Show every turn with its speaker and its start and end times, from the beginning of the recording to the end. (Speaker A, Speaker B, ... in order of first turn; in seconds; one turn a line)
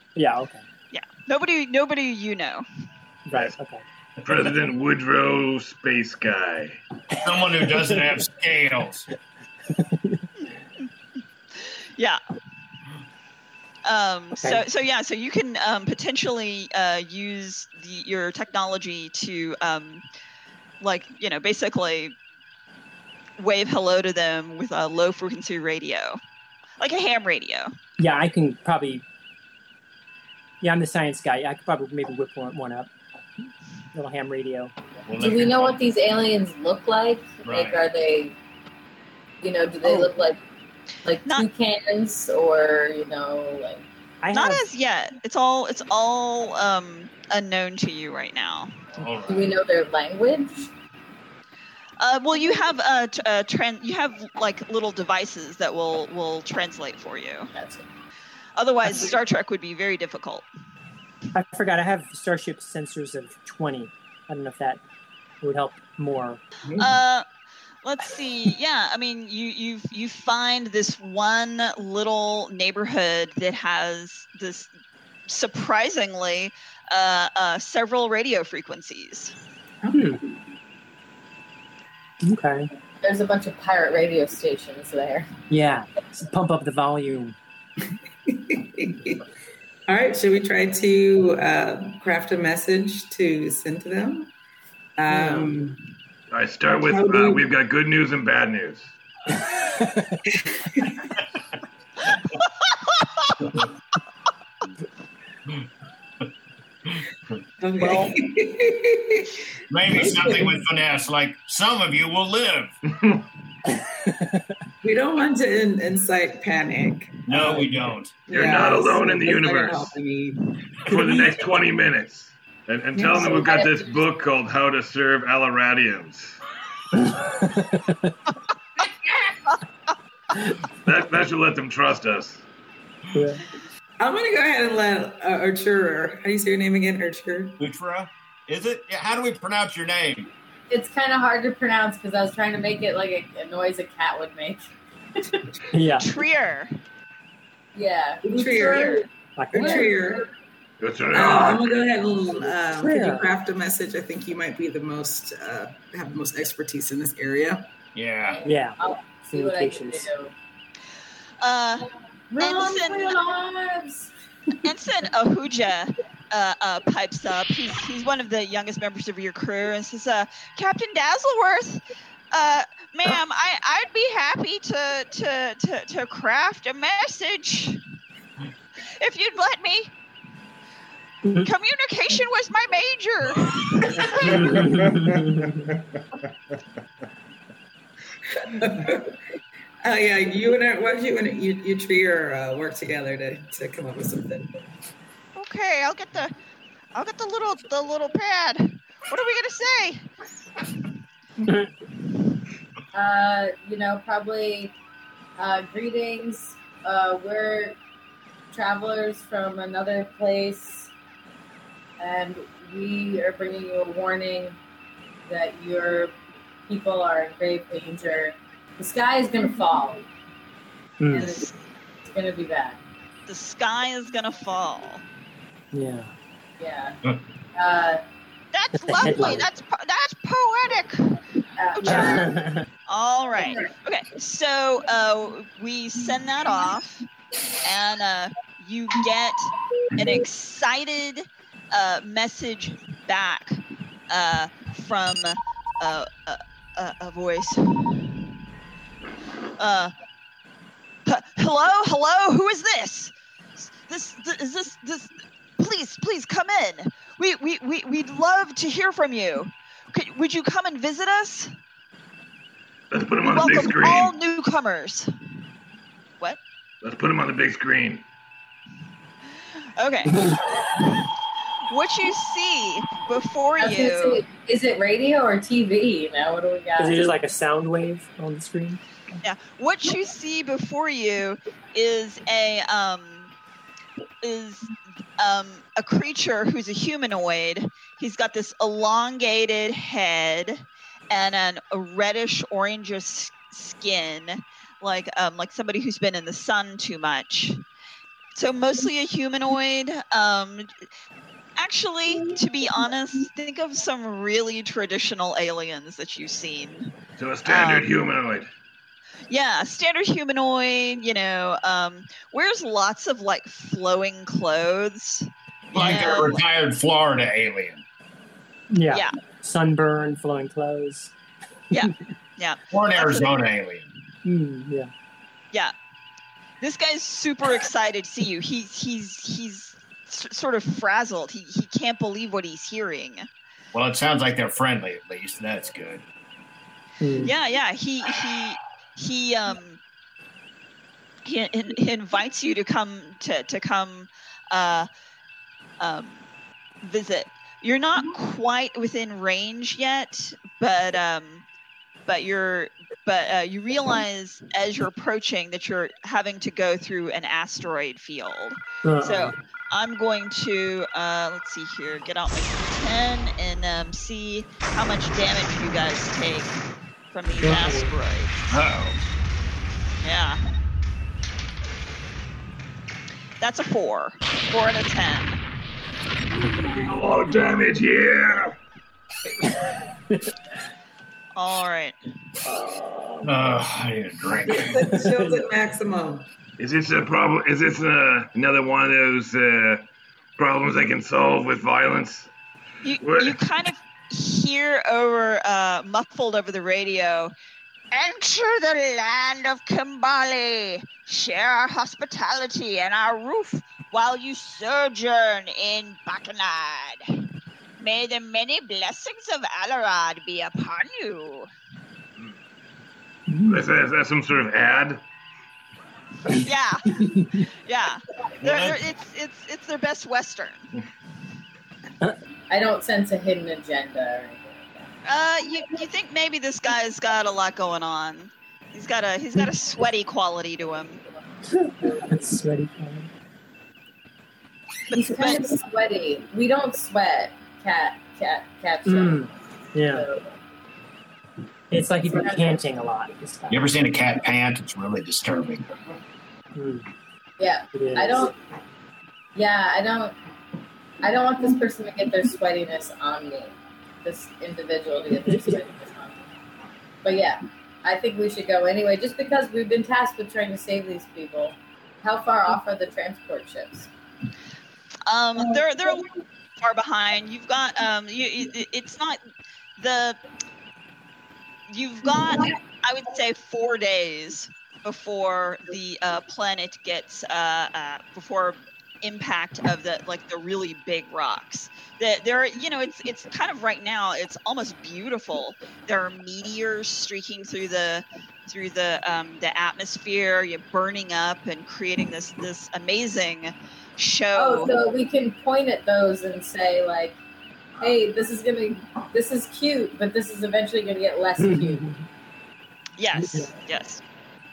Speaker A: 0.1-0.6
Speaker B: 0.9-2.6
Speaker A: 3.3-3.8
Speaker C: 4.2-6.8
Speaker D: 7.2-9.1
Speaker A: 9.7-10.3
Speaker B: 11.6-12.2
Speaker B: 13.8-20.0
Speaker A: 14.4-14.6
Speaker B: 20.8-22.1
Speaker B: 23.4-26.2
Speaker B: 26.8-27.7
Speaker A: 28.0-29.0
Speaker A: 30.6-32.9
Speaker A: 33.9-34.7
Speaker D: 35.0-35.8
Speaker E: 35.2-38.3
Speaker D: 37.4-37.8
Speaker E: 39.4-40.4
Speaker E: 41.0-43.9
Speaker A: 44.2-44.6
Speaker B: 44.3-48.8
Speaker D: 48.9-49.5
Speaker E: 49.2-50.7
Speaker B: 52.0-57.5
Speaker E: 57.5-57.8
Speaker B: 58.5-60.5
Speaker A: 61.3-64.8
Speaker A: 65.4-66.4
Speaker F: 66.7-66.9
Speaker B: 66.8-67.2
Speaker B: 67.8-74.7
Speaker B: 75.3-79.3
Speaker A: 79.9-80.2
Speaker A: 82.2-82.7
Speaker E: 83.0-85.3
Speaker A: 85.5-87.3
Speaker F: 88.3-89.2
Speaker F: 89.9-94.3
Speaker F: 95.0-95.6
Speaker A: 95.1-95.8
Speaker C: 96.3-98.9
Speaker A: 96.9-97.4
Speaker A: 99.4-100.2
Speaker F: 107.6-109.3
Speaker A: 107.8-108.1
Speaker D: 109.7-112.8
Speaker F: 110.0-110.5
Speaker C: 112.9-113.2
Speaker A: 113.7-114.5
Speaker F: 114.8-117.7
Speaker D: 117.3-118.2
Speaker F: 118.3-120.4
Speaker C: 118.3-119.9
Speaker C: 120.8-126.4
Speaker A: 120.9-121.3
Speaker A: 123.0-123.4
Speaker E: 123.4-123.9
Speaker A: 126.9-128.2
Speaker A: 130.3-130.6
Speaker C: 130.8-132.4
Speaker A: 133.1-133.4
Speaker F: 134.0-137.6
Speaker D: 137.6-140.3
Speaker E: 140.7-145.4
Speaker A: 145.7-146.1
Speaker B: 146.0-146.8
Speaker E: 147.7-150.2
Speaker F: 148.2-150.3
Speaker B: 148.6-149.0
Speaker A: 149.3-149.9
Speaker C: 150.8-151.8
Speaker F: 151.1-157.7
Speaker A: 152.8-153.2
Speaker D: 157.9-158.5
Speaker E: 158.3-160.3
Speaker A: 158.4-158.8
Speaker A: 159.3-160.1
Speaker B: 161.4-163.2
Speaker E: 162.3-164.1
Speaker B: 164.6-177.8
Speaker B: 179.0-179.9
Speaker A: 181.2-181.5
Speaker B: 181.4-184.6
Speaker A: 184.1-185.7
Speaker C: 184.2-185.7
Speaker F: 188.3-189.2
Speaker F: 189.8-194.5
Speaker B: 195.3-196.3
Speaker B: 196.9-200.0
Speaker E: 202.9-204.7
Speaker E: 205.4-207.8
Speaker E: 208.5-210.9
Speaker E: 212.0-214.6
Speaker E: 215.3-216.1
Speaker E: 216.7-220.0
Speaker A: 221.0-221.3
Speaker E: 221.1-222.8
Speaker B: 221.1-221.5
Speaker B: 223.3-225.0
Speaker A: 225.7-226.1
Speaker E: 226.6-227.0
Speaker E: 227.6-228.0
Speaker B: 228.5-231.2
Speaker A: 228.8-229.4
Speaker E: 231.6-232.3
Speaker B: 231.7-232.2
Speaker A: 231.8-232.7
Speaker B: 232.9-237.1
Speaker B: 237.6-247.8
Speaker B: 249.6-249.9
Speaker B: 251.1-261.5
Speaker C: 262.9-264.1
Speaker B: 263.2-265.1
Speaker C: 266.8-268.0
Speaker B: 269.8-270.2
Speaker A: 270.1-270.8
Speaker B: 271.7-274.2
Speaker E: 273.6-277.0
Speaker A: 276.8-278.8
Speaker B: 279.2-283.3
Speaker B: 284.2-297.6
Speaker B: 298.3-300.7
Speaker B: 301.6-306.9
Speaker C: 307.2-308.5
Speaker B: 307.4-307.9
Speaker B: 309.3-316.4
Speaker D: 315.7-317.8
Speaker A: 318.7-321.1
Speaker B: 321.7-323.4
Speaker D: 322.7-323.9
Speaker A: 324.2-324.9
Speaker B: 326.6-333.3
Speaker D: 333.7-336.0
Speaker A: 337.0-337.3
Speaker B: 337.2-339.8
Speaker B: 341.2-344.9
Speaker B: 345.8-346.2
Speaker B: 346.8-351.4
Speaker B: 352.1-366.5
Speaker A: 358.8-359.3
Speaker B: 367.1-368.4
Speaker A: 367.4-367.9
Speaker D: 368.5-369.0
Speaker B: 370.0-370.4
Speaker B: 373.4-375.4
Speaker C: 376.6-378.6
Speaker B: 381.3-381.9
Speaker A: 382.6-383.2
Speaker D: 383.2-384.9
Speaker F: 384.4-386.3
Speaker A: 384.9-385.4
Speaker C: 386.6-389.8
Speaker C: 390.4-392.3
Speaker B: 392.8-397.3
Speaker C: 393.0-393.4
Speaker B: 397.9-407.2
Speaker B: 407.8-411.5
Speaker A: 413.3-413.6
Speaker C: 413.5-415.0
Speaker A: 416.3-417.5
Speaker B: 416.3-417.0
Speaker B: 417.5-420.7
Speaker D: 418.4-418.8
Speaker E: 422.5-424.5
Speaker B: 425.0-431.0
Speaker A: 431.5-433.1
Speaker B: 434.9-435.5
Speaker E: 434.9-439.3
Speaker A: 438.9-440.0
Speaker E: 439.8-440.3
Speaker A: 441.7-443.6
Speaker D: 443.5-445.7
Speaker A: 446.5-446.8
Speaker E: 447.4-448.3
Speaker A: 447.7-448.3
Speaker E: 449.3-450.2
Speaker E: 451.0-456.2
Speaker A: 455.3-455.6
Speaker E: 457.0-463.9
Speaker B: 465.1-469.2
Speaker B: 469.8-470.2
Speaker B: 471.7-494.7
Speaker E: 494.3-497.2
Speaker E: 497.8-501.8
Speaker A: 501.4-502.0
Speaker B: 503.0-504.0
Speaker A: 503.2-503.5